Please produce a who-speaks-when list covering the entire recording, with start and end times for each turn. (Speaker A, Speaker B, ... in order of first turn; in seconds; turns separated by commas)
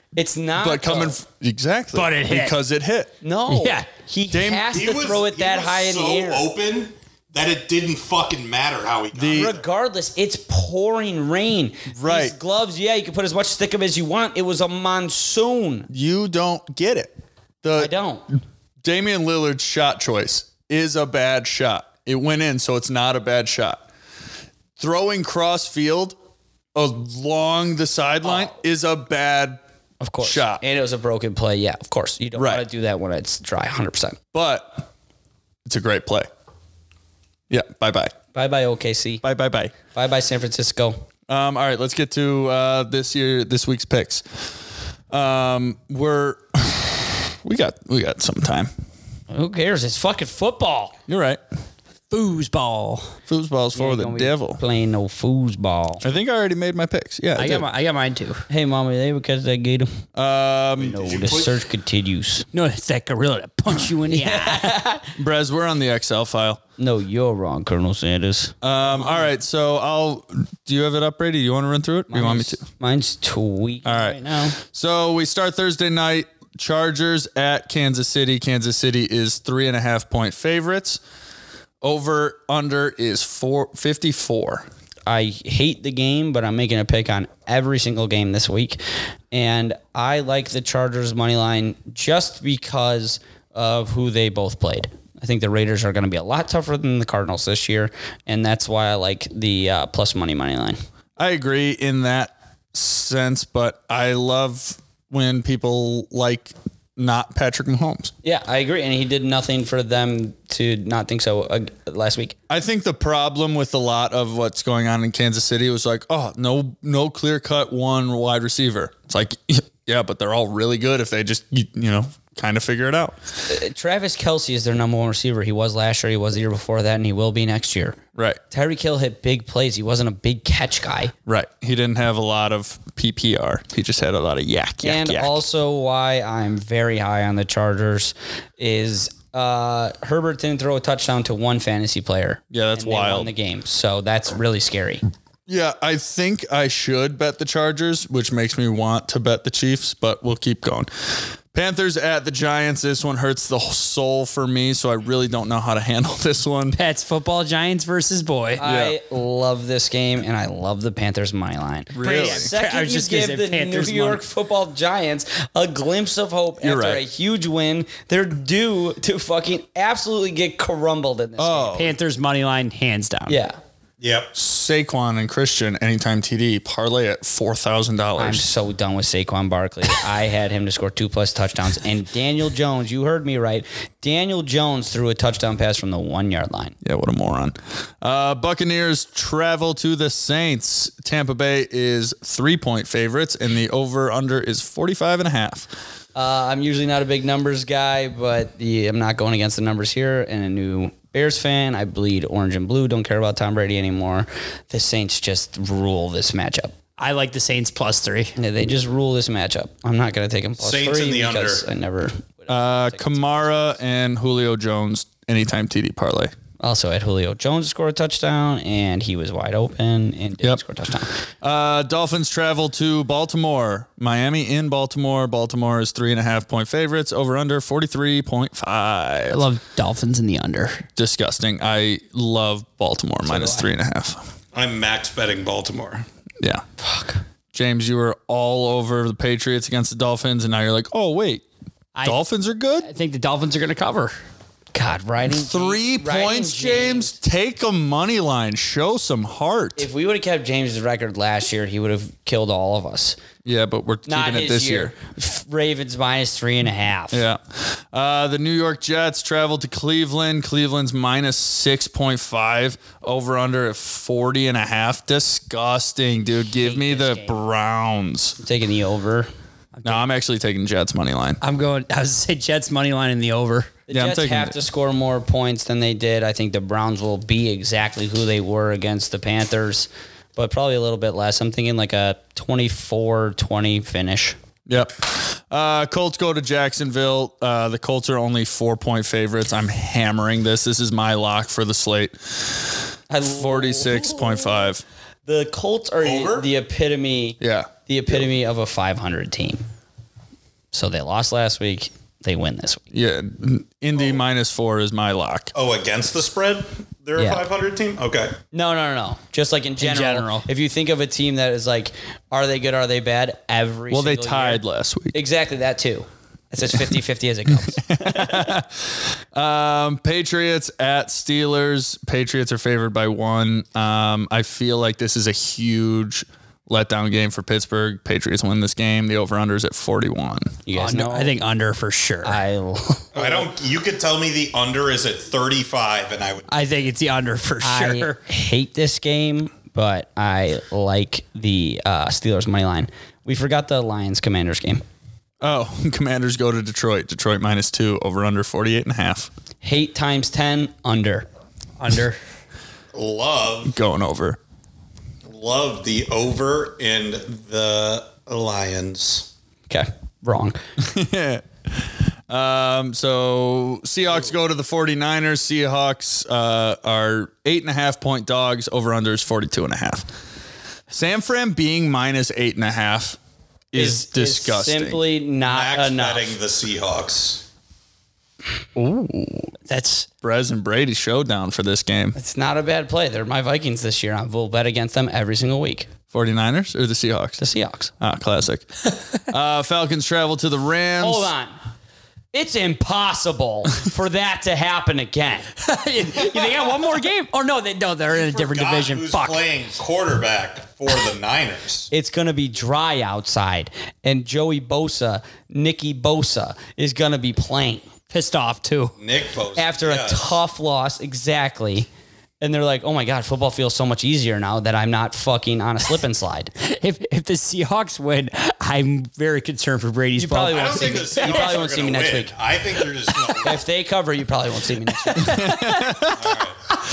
Speaker A: 0.1-1.2, Speaker B: 0.6-3.1, Speaker C: 1.9-2.6, Speaker A: 3.2-6.5, Speaker C: 3.5-3.9, Speaker B: 4.3-4.8, Speaker D: 4.7-9.6, Speaker B: 9.1-9.5, Speaker A: 9.3-15.9, Speaker B: 11.9-12.3, Speaker B: 15.9-17.1, Speaker B: 17.6-17.9, Speaker A: 17.7-18.2, Speaker B: 18.8-23.8, Speaker B: 24.8-26.1, Speaker B: 26.7-29.6, Speaker A: 28.2-28.5, Speaker A: 30.0-34.2, Speaker B: 30.2-30.6, Speaker B: 32.4-32.6, Speaker B: 34.3-34.9, Speaker B: 35.6-36.3, Speaker B: 37.5-38.1, Speaker A: 38.3-39.2, Speaker B: 39.2-39.7, Speaker A: 39.9-41.0, Speaker B: 41.3-44.2, Speaker B: 45.1-48.7, Speaker A: 49.3-51.0, Speaker B: 51.1-51.4, Speaker C: 52.1-53.1, Speaker B: 53.3-54.6, Speaker A: 53.7-56.0, Speaker B: 56.0-57.6, Speaker C: 57.4-58.4, Speaker A: 58.5-60.0, Speaker B: 60.1-61.0, Speaker D: 60.8-61.5, Speaker A: 60.8-62.5, Speaker C: 62.5-64.8, Speaker A: 64.1-65.1, Speaker B: 65.2-66.6, Speaker A: 66.8-68.5, Speaker B: 68.6-72.6, Speaker A: 72.1-74.5, Speaker B: 73.8-81.0, Speaker B: 81.8-84.7, Speaker A: 85.0-88.8, Speaker A: 89.3-100.8, Speaker B: 101.2-108.1, Speaker A: 108.2-112.4, Speaker B: 112.5-123.2, Speaker A: 123.5-128.0, Speaker B: 128.1-128.4, Speaker A: 128.5-131.1, Speaker B: 131.2-135.4, Speaker A: 134.8-145.0, Speaker B: 142.5-143.3, Speaker B: 145.5-156.8, Speaker C: 156.7-158.6, Speaker A: 158.6-171.8, Speaker B: 158.6-158.9, Speaker B: 161.9-162.5, Speaker C: 162.0-164.2, Speaker B: 166.6-167.0, Speaker B: 171.4-171.9, Speaker C: 171.7-173.4, Speaker A: 173.3-173.6, Speaker D: 174.0-174.3, Speaker B: 174.3-178.4, Speaker A: 178.2-186.7, Speaker B: 186.8-195.7, Speaker A: 196.1-206.7, Speaker C: 207.0-208.3, Speaker A: 208.4-213.6, Speaker D: 210.6-211.6, Speaker B: 212.5-216.3, Speaker A: 216.6-221.2, Speaker B: 221.4-229.4, Speaker C: 229.3-230.8, Speaker B: 230.9-234.3, Speaker A: 233.3-233.6, Speaker D: 234.5-236.0, Speaker A: 236.8-237.2, Speaker B: 237.5-241.4, Speaker C: 241.9-242.2, Speaker B: 242.0-242.9, Speaker C: 242.8-244.2, Speaker A: 244.7-247.2, Speaker B: 245.3-249.9, Speaker A: 249.8-253.2, Speaker B: 253.4-254.9, Speaker A: 254.1-257.2, Speaker B: 257.1-268.4, Speaker A: 266.6-267.4, Speaker A: 268.4-269.3, Speaker C: 269.8-270.0, Speaker B: 269.8-271.4, Speaker C: 271.4-273.7, Speaker A: 273.9-284.4, Speaker B: 273.9-274.6, Speaker B: 284.7-294.8, Speaker A: 293.1-294.7, Speaker A: 295.2-299.6, Speaker D: 296.0-296.5, Speaker B: 297.4-297.7, Speaker A: 300.7-302.8, Speaker B: 302.9-305.5, Speaker D: 305.5-308.4, Speaker A: 307.1-307.4, Speaker A: 308.5-314.6, Speaker C: 309.8-310.4, Speaker B: 313.9-315.2, Speaker A: 315.1-318.5, Speaker B: 317.5-330.6, Speaker A: 330.6-331.3, Speaker C: 330.7-332.4, Speaker A: 332.2-333.5, Speaker D: 333.1-336.5, Speaker C: 336.5-338.2, Speaker A: 337.6-344.8, Speaker B: 345.4-349.3, Speaker A: 349.6-351.3, Speaker C: 351.8-352.2, Speaker D: 352.9-353.7, Speaker B: 353.6-354.4, Speaker D: 355.3-359.3, Speaker A: 359.7-360.6, Speaker B: 360.8-370.1, Speaker B: 370.9-373.2, Speaker B: 373.7-375.0, Speaker A: 373.7-376.3, Speaker D: 375.4-377.4, Speaker B: 378.8-379.5, Speaker C: 379.7-380.1, Speaker B: 380.2-382.1, Speaker A: 382.1-385.9, Speaker B: 386.1-387.4, Speaker A: 387.4-387.9, Speaker B: 388.0-391.3, Speaker A: 391.0-391.5, Speaker A: 392.3-395.5, Speaker C: 395.6-399.4, Speaker D: 398.1-401.9, Speaker A: 401.9-407.9, Speaker C: 408.1-408.9, Speaker D: 409.0-410.4, Speaker A: 409.6-411.9, Speaker A: 412.4-416.5, Speaker C: 416.6-421.4, Speaker A: 420.2-422.9, Speaker D: 420.5-423.6, Speaker A: 423.4-425.6, Speaker C: 425.1-425.8, Speaker B: 425.2-426.4, Speaker D: 426.1-426.6